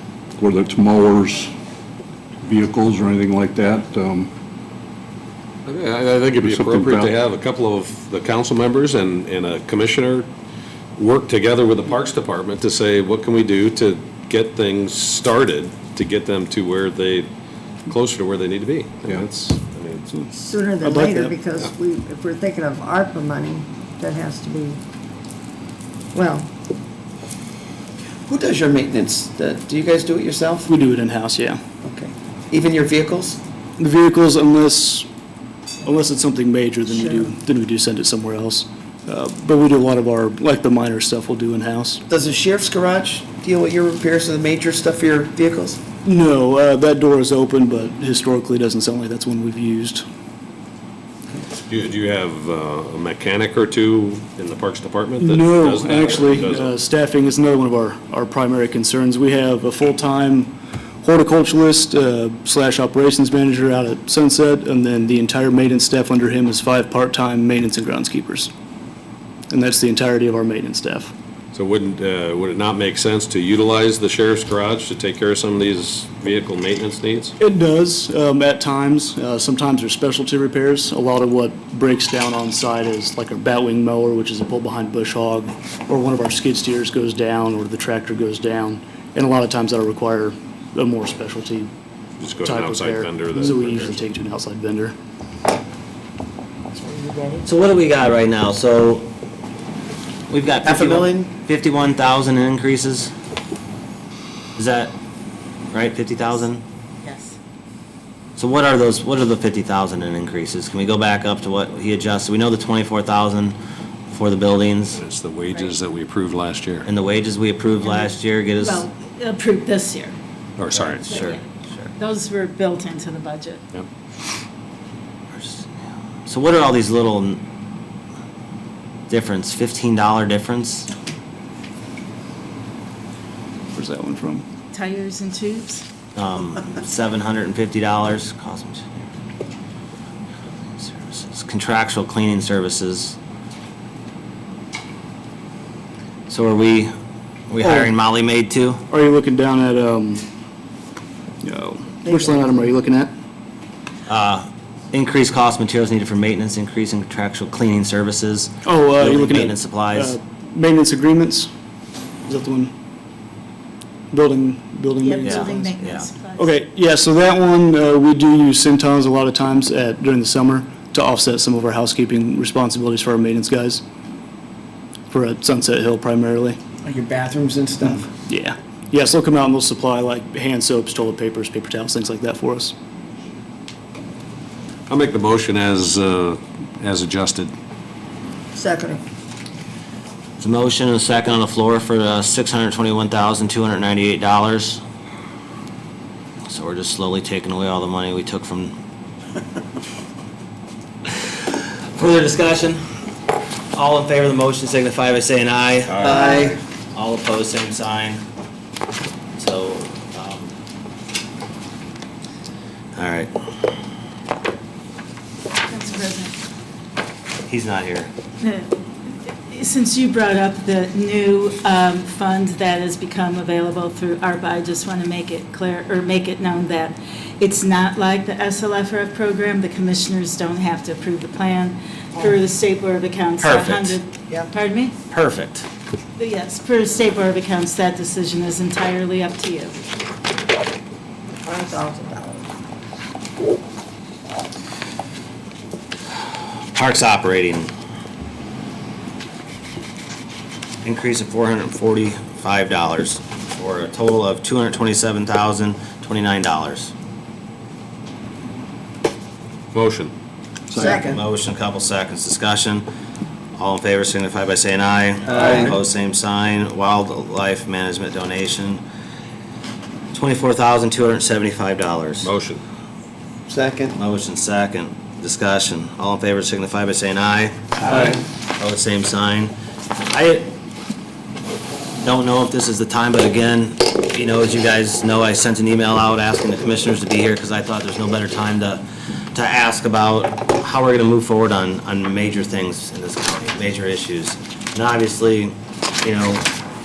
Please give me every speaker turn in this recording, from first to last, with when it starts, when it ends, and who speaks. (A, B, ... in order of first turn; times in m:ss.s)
0:00.4-0:01.5 A
0:02.4-0:04.3 A
0:05.6-0:10.3 B
0:06.4-0:07.2 A
0:11.0-0:17.3 B
0:17.9-0:20.3 B
0:20.3-0:24.8 C
0:20.8-0:21.3 D
0:26.1-0:26.5 C
0:28.3-0:30.6 E
0:30.6-0:31.6 D
0:31.8-0:33.4 E
0:33.8-0:35.1 D
0:35.8-0:42.0 D
0:42.1-0:45.8 E
0:46.0-0:50.0 D
0:51.7-0:56.7 B
0:55.2-1:08.5 D
1:09.5-1:11.1 D
1:11.5-1:17.3 B
1:17.4-1:31.7 D
1:32.2-1:34.0 B
1:32.4-1:34.9 D
1:36.7-1:37.4 E
1:37.4-1:39.1 F
1:40.3-1:43.1 F
1:40.6-1:41.3 E
1:44.6-1:44.9 F
1:45.7-1:46.6 F
1:47.0-1:47.4 G
1:48.4-1:53.6 F
1:54.1-1:55.0 F
1:54.9-1:56.9 B
1:56.8-1:58.8 F
1:57.8-2:00.2 G
2:00.6-2:01.0 B
2:00.7-2:01.9 F
2:01.1-2:01.4 G
2:02.0-2:03.6 G
2:05.3-2:07.4 F
2:09.1-2:10.9 F
2:13.7-2:14.4 D
2:14.7-2:15.8 G
2:16.2-2:19.0 F
2:20.6-2:23.2 F
2:26.3-2:26.9 F
2:27.5-2:28.8 F
2:27.6-2:27.9 D
2:28.9-2:30.3 D
2:31.4-2:33.1 D
2:32.0-2:32.6 C
2:34.1-2:40.1 F
2:38.6-2:41.5 D
2:42.2-2:42.7 D
2:44.1-2:45.7 D
2:45.0-2:46.6 G
2:45.2-2:46.1 F
2:46.4-2:53.8 D
2:55.1-2:56.6 D
2:56.8-2:58.1 E
2:58.3-3:02.7 D
3:04.9-3:07.5 B
3:08.5-3:09.0 C
3:10.4-3:14.8 F
3:16.5-3:18.7 F
3:21.9-3:22.8 F
3:23.7-3:28.2 F
3:26.0-3:26.6 E
3:29.4-3:30.5 F
3:33.0-3:33.3 F
3:35.7-3:36.3 G
3:37.5-3:38.1 F
3:38.4-3:38.7 G
3:39.2-3:54.9 G
3:53.4-3:54.0 F
3:55.1-3:55.7 F
3:56.2-3:59.7 G
4:01.4-4:02.5 C
4:06.7-4:07.7 F
4:10.8-4:16.9 F
4:19.7-4:20.1 B
4:20.7-4:21.2 E
4:20.7-4:22.8 F
4:23.5-4:28.8 F
4:25.3-4:25.8 E
4:30.1-4:32.3 F
4:32.2-4:32.6 B
4:33.5-4:34.0 E
4:34.0-4:40.5 F
4:37.8-4:38.2 E
4:42.0-4:56.5 F